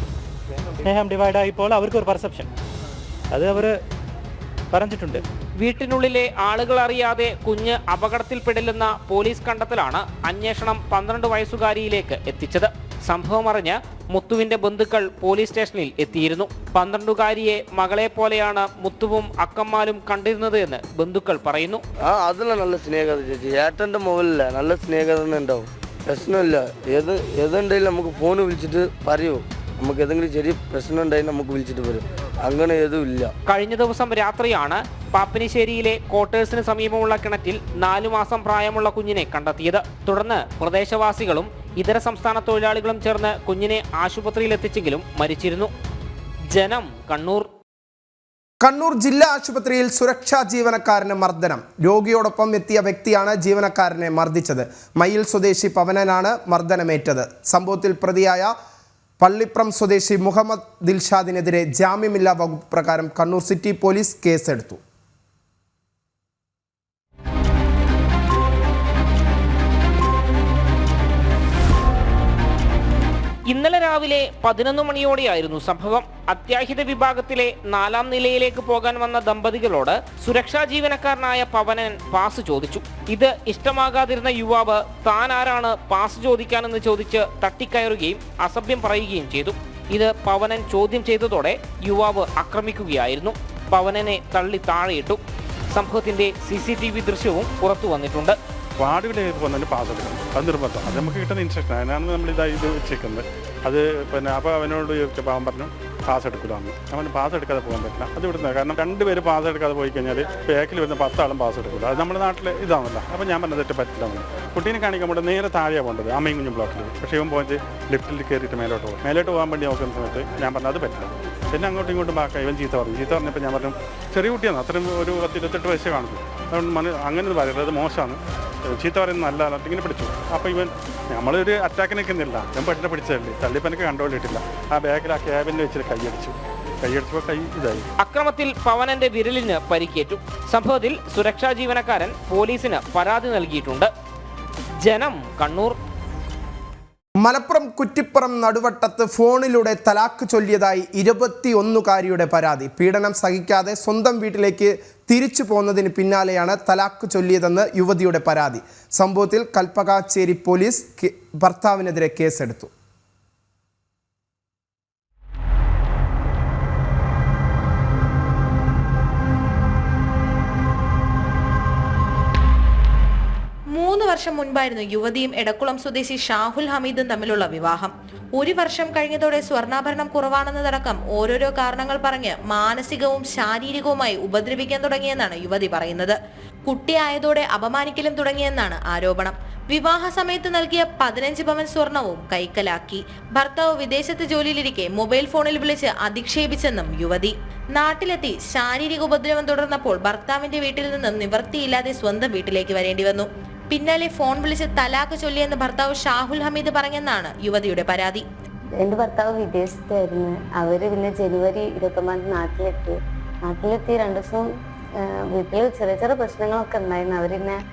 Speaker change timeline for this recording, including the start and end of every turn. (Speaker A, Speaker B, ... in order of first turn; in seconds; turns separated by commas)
Speaker A: 0.8-2.5, Speaker A: 3.3-3.8, Speaker A: 4.7-5.2, Speaker B: 5.6-21.8, Speaker C: 22.0-33.3, Speaker B: 33.5-45.7, Speaker B: 46.5-47.5, Speaker D: 48.6-58.5, Speaker D: 59.2-64.8, Speaker B: 73.5-95.2, Speaker B: 95.7-98.4, Speaker E: 98.8-137.8, Speaker B: 138.0-143.9, Speaker B: 144.8-145.8, Speaker D: 147.2-162.7, Speaker F: 173.7-208.2, Speaker G: 208.8-214.5, Speaker G: 215.0-217.6